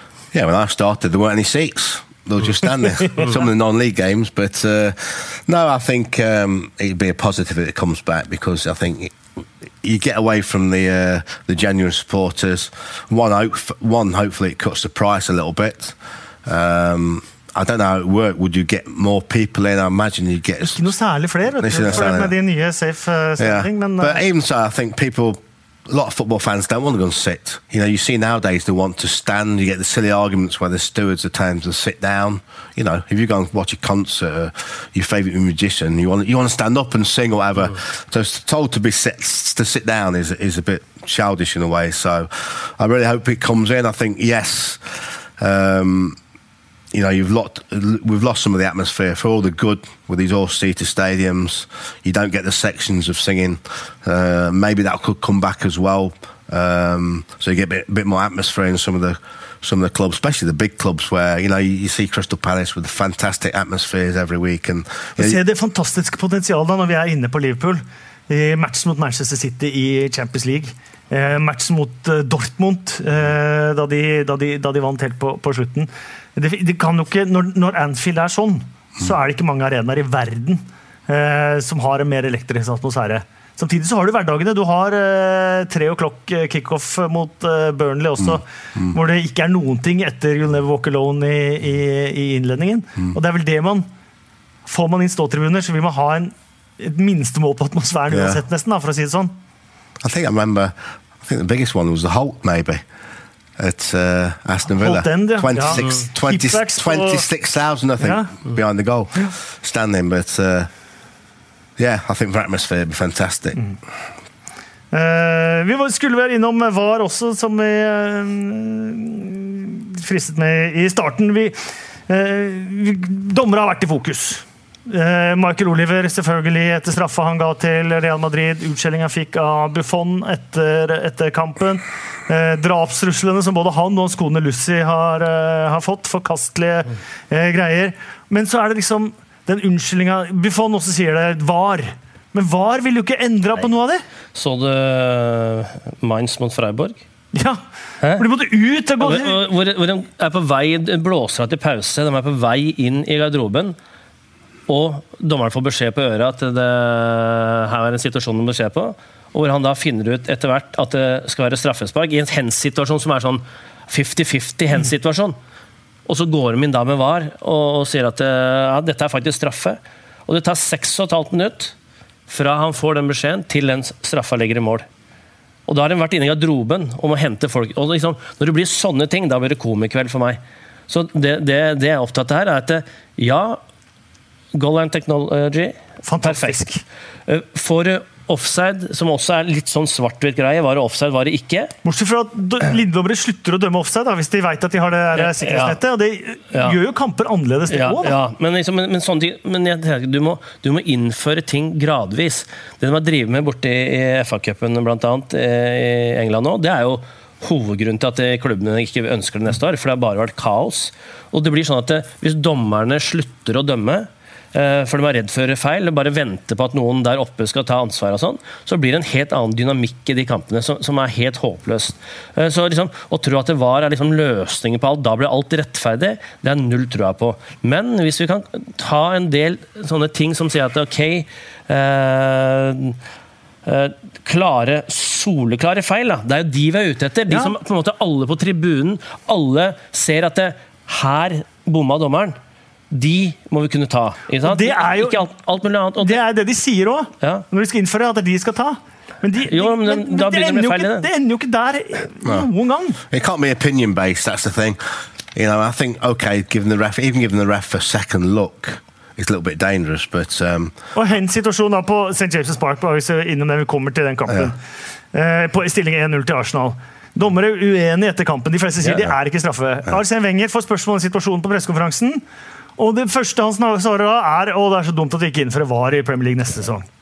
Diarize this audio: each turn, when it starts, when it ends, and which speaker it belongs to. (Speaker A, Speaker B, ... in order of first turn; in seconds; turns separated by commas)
Speaker A: 0.3-20.9, Speaker B: 20.7-24.2, Speaker A: 21.6-22.3, Speaker A: 23.4-46.2, Speaker A: 46.9-65.4, Speaker B: 65.2-93.9, Speaker B: 94.7-99.3, Speaker A: 98.1-98.4, Speaker A: 100.0-102.8, Speaker A: 103.6-110.7, Speaker B: 104.8-107.3, Speaker B: 108.0-108.3, Speaker A: 111.8-113.6, Speaker B: 114.9-144.0, Speaker C: 144.3-147.0, Speaker B: 147.3-147.6, Speaker B: 148.2-149.4, Speaker C: 149.0-153.8, Speaker C: 154.7-165.4, Speaker C: 166.1-171.7, Speaker C: 172.3-174.9, Speaker C: 175.7-183.6, Speaker C: 184.5-186.6, Speaker B: 186.0-186.8, Speaker C: 187.3-191.7, Speaker B: 191.8-198.2, Speaker C: 195.2-195.8, Speaker C: 197.7-233.0, Speaker C: 233.7-242.4, Speaker B: 237.3-237.5, Speaker C: 242.9-246.2, Speaker B: 244.4-245.3, Speaker B: 246.0-253.0, Speaker C: 249.5-251.1, Speaker A: 253.1-260.8, Speaker B: 260.9-264.6, Speaker B: 265.1-272.2, Speaker B: 272.8-276.9